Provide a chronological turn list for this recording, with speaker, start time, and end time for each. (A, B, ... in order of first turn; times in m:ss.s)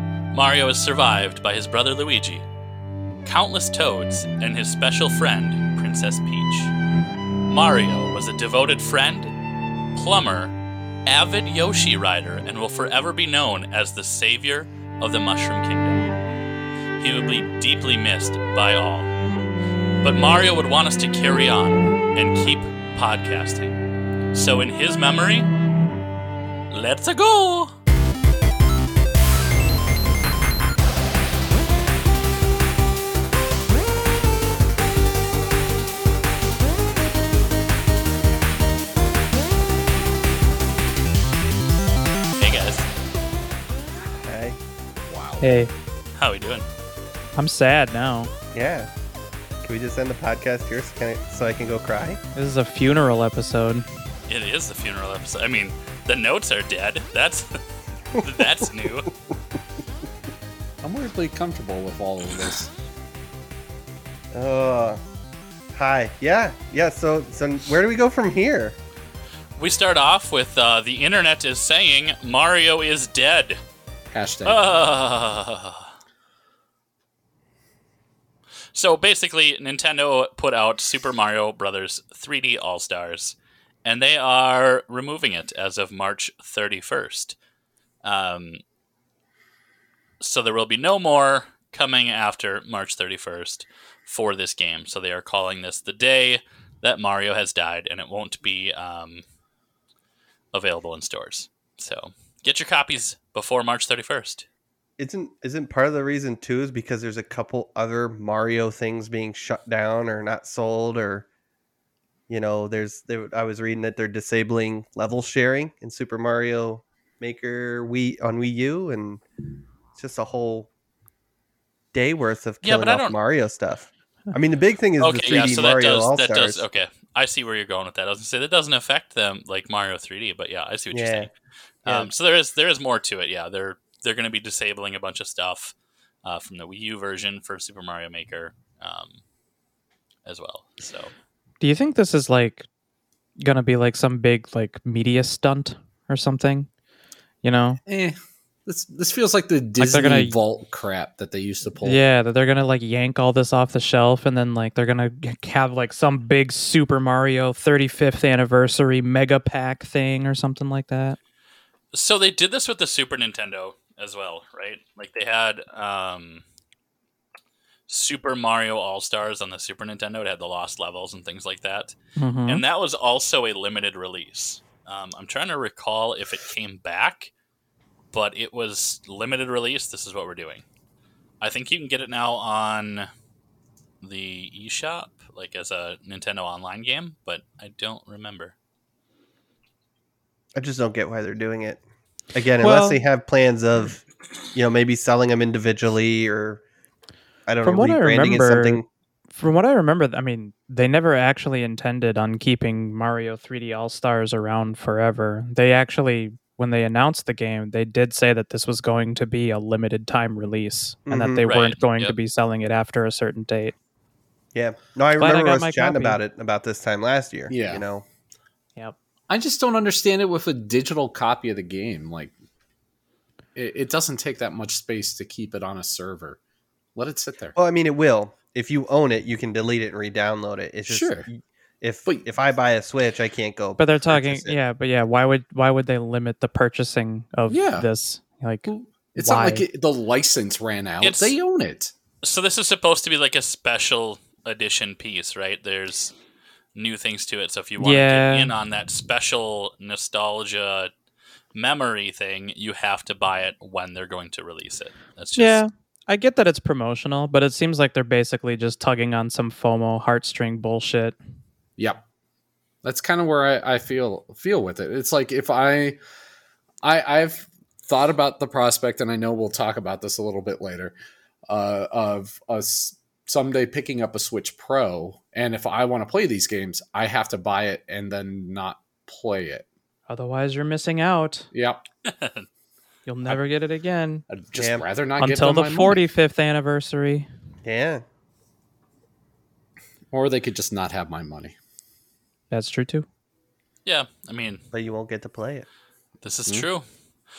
0:00.3-0:02.5 A
0:03.2-0:06.7 A
0:07.5-0:09.3 A
0:10.0-0:10.6 A
0:11.1-0:16.1 A
0:17.0-0:19.1 A
0:20.0-0:23.8 A
0:24.3-0:25.5 A
0:26.7-0:27.7 A
0:42.4-0:42.9 A
0:44.2-0:44.6 B
0:45.0-0:45.6 C
0:45.4-0:45.7 D
0:46.2-0:46.7 A
0:47.4-0:48.3 D
0:48.5-0:48.9 B
0:49.6-0:52.2 B
0:52.4-0:53.9 D
0:54.3-0:57.6 A
0:58.2-0:59.1 A
1:00.8-1:02.7 C
1:04.3-1:05.0 B
1:05.7-1:08.8 B
1:09.6-1:13.6 A
1:14.1-1:14.6 C
1:14.4-1:15.9 A
1:18.7-1:27.4 A
1:28.0-1:28.6 A
1:30.2-1:39.2 A
1:40.5-1:44.5 A
1:45.0-1:51.3 B
1:52.3-1:59.2 B
2:00.0-2:00.7 B
2:01.9-2:06.6 B
2:02.6-2:03.2 A
2:05.0-2:11.3 A
2:10.9-2:11.3 B
2:11.8-2:19.2 A
2:11.9-2:12.1 B
2:20.3-2:21.1 A
2:21.6-2:22.7 D
2:23.4-2:26.7 D
2:27.4-2:27.8 D
2:27.9-2:32.0 C
2:29.8-2:30.4 D
2:31.8-2:41.2 D
2:41.9-2:46.4 A
2:47.9-2:57.3 A
2:52.2-2:52.6 D
2:58.1-3:00.6 A
3:01.4-3:03.1 A
3:04.0-3:08.5 A
3:10.6-3:11.8 B
3:12.3-3:14.0 B
3:12.6-3:13.0 D
3:14.5-3:16.6 B
3:17.5-3:18.9 B
3:17.6-3:33.8 D
3:31.1-3:31.4 B
3:31.4-3:32.2 A
3:34.5-3:38.0 B
3:35.2-3:36.2 D
3:37.5-3:37.8 C
3:39.3-3:42.3 C
3:43.6-3:46.4 C
3:47.0-3:47.6 C
3:47.6-3:54.6 B
3:50.9-3:51.3 C
3:53.8-3:59.6 D
3:57.5-3:57.9 C
3:58.6-4:01.9 C
4:01.0-4:01.4 A
4:02.2-4:06.1 A
4:06.8-4:10.9 A
4:07.8-4:08.5 D
4:11.5-4:15.6 A
4:15.4-4:21.2 D
4:21.8-4:22.0 C
4:22.8-4:26.0 C
4:26.8-4:31.0 C
4:31.5-4:39.7 C
4:40.1-4:41.5 D
4:41.5-4:41.8 C
4:42.0-4:42.5 A
4:43.1-4:44.2 D
4:44.3-4:46.0 C
4:44.6-4:44.8 B
4:45.2-4:47.3 D
4:47.6-4:48.0 B
4:50.1-4:51.6 C
4:52.5-4:53.1 D
4:53.8-4:54.6 A
4:54.7-4:55.7 B
4:56.2-4:56.8 A